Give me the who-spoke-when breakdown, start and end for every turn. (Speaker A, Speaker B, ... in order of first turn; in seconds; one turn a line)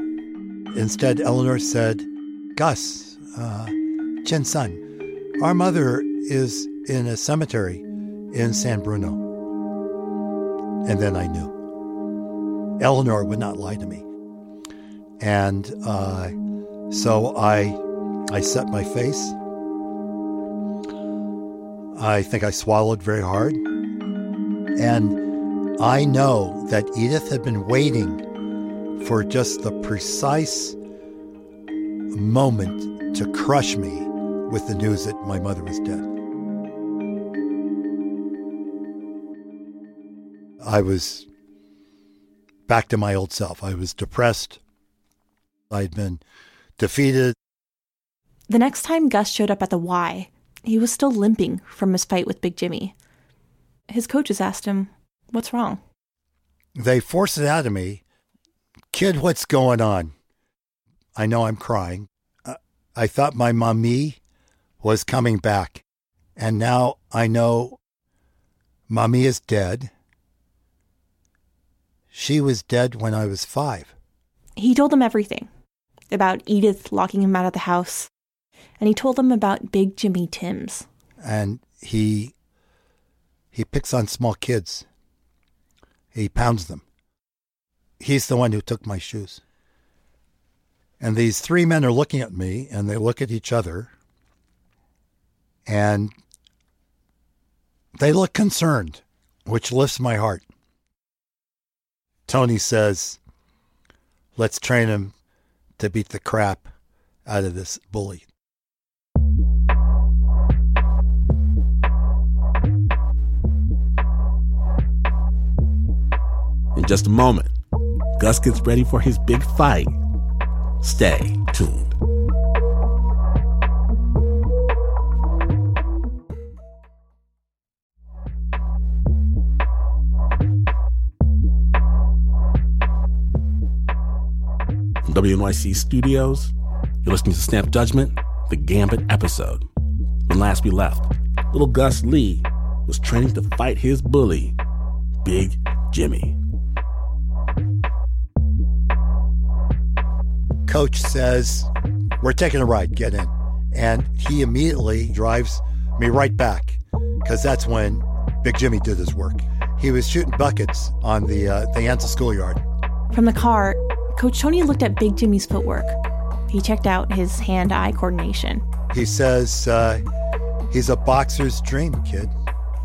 Speaker A: 0.7-4.8
Speaker A: 5.4-9.2
Speaker A: 10.8-11.6
Speaker A: 12.8-14.1
Speaker A: 15.2-16.4
Speaker A: 16.9-17.8
Speaker A: 18.3-19.4
Speaker A: 21.9-23.6
Speaker A: 24.8-25.2
Speaker A: 25.8-28.2
Speaker A: 29.0-30.8
Speaker A: 32.1-36.1
Speaker A: 40.6-41.3
Speaker A: 42.7-44.6
Speaker A: 45.7-46.2
Speaker A: 46.8-47.4
Speaker B: 48.5-52.9
Speaker B: 53.9-55.8
Speaker A: 56.8-58.0
Speaker A: 58.9-60.1
Speaker A: 61.2-64.2
Speaker A: 64.8-65.8
Speaker A: 66.4-67.8
Speaker A: 68.9-69.9
Speaker A: 72.1-73.9
Speaker B: 74.6-75.5
Speaker B: 76.1-78.1
Speaker B: 78.8-80.9
Speaker A: 81.2-82.3
Speaker A: 83.5-84.9
Speaker A: 86.1-86.8
Speaker A: 88.0-89.4
Speaker A: 91.0-93.9
Speaker A: 95.7-96.1
Speaker A: 98.0-100.5
Speaker A: 102.3-103.2
Speaker A: 104.4-105.1
Speaker A: 105.8-106.7
Speaker A: 107.3-108.3
Speaker C: 116.8-117.5
Speaker C: 118.2-119.9
Speaker C: 120.8-122.0
Speaker C: 135.1-136.5
Speaker C: 137.0-139.7
Speaker C: 140.3-144.6
Speaker C: 145.2-146.4
Speaker A: 150.7-162.6
Speaker B: 163.1-166.0
Speaker B: 166.5-168.6
Speaker A: 168.9-170.0
Speaker A: 170.7-172.3